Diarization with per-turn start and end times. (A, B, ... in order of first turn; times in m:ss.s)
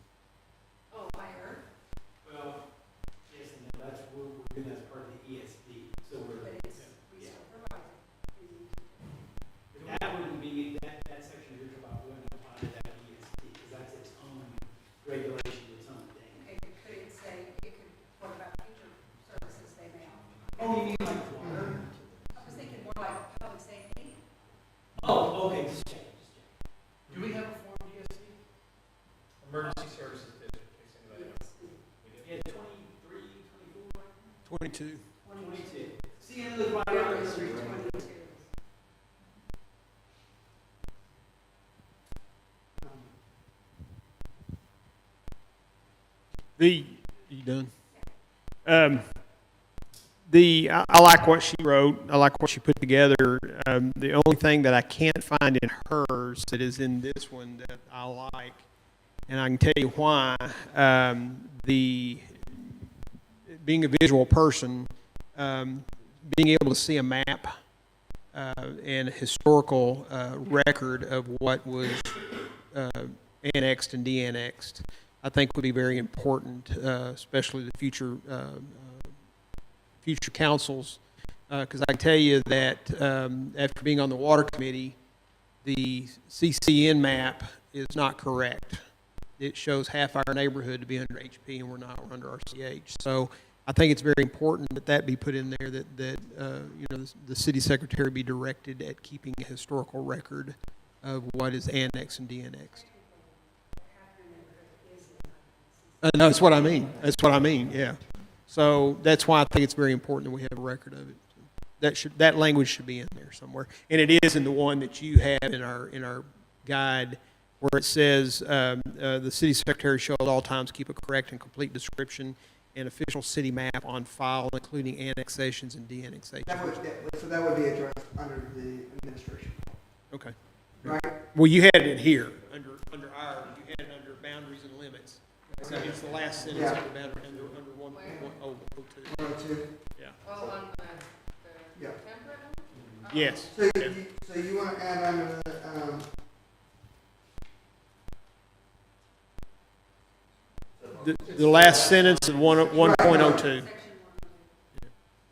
0:00.9-0:01.6 A
0:02.2-0:02.6 B
0:03.3-0:07.4 B
0:06.4-0:09.2 A
0:09.7-0:16.5 B
0:16.4-0:20.4 A
0:20.6-0:22.7 B
0:21.4-0:21.8 C
0:22.4-0:24.2 A
0:25.0-0:26.5 B
0:27.1-0:28.4 B
0:27.1-0:27.4 D
0:29.4-0:32.5 D
0:31.1-0:31.8 A
0:32.2-0:34.2 B
0:34.4-0:35.0 E
0:35.2-0:35.9 A
0:35.3-0:38.1 B
0:36.9-0:38.4 A
0:42.8-0:43.1 C
0:46.6-0:47.7 E
0:48.6-0:49.0 E
0:50.3-0:58.6 E
0:59.3-1:02.8 E
1:03.5-1:07.5 E
1:08.3-1:12.2 E
1:12.7-1:19.1 E
1:20.0-1:25.0 E
1:25.6-1:28.8 E
1:29.4-1:42.9 E
1:42.7-1:47.1 A
1:46.0-2:06.8 E
2:06.4-2:09.8 C
2:10.1-2:19.2 E
2:10.8-2:11.2 C
2:15.6-2:16.8 C
2:15.7-2:16.8 D
2:17.9-2:18.3 F
2:18.0-2:18.3 C
2:19.1-2:19.7 C
2:20.2-2:23.6 F
2:22.8-2:23.0 D
2:23.1-2:24.0 E
2:23.5-2:26.1 C
2:31.0-2:33.7 E
2:31.2-2:33.2 B
2:31.6-2:32.2 D
2:32.7-2:33.5 C
2:33.3-2:34.6 A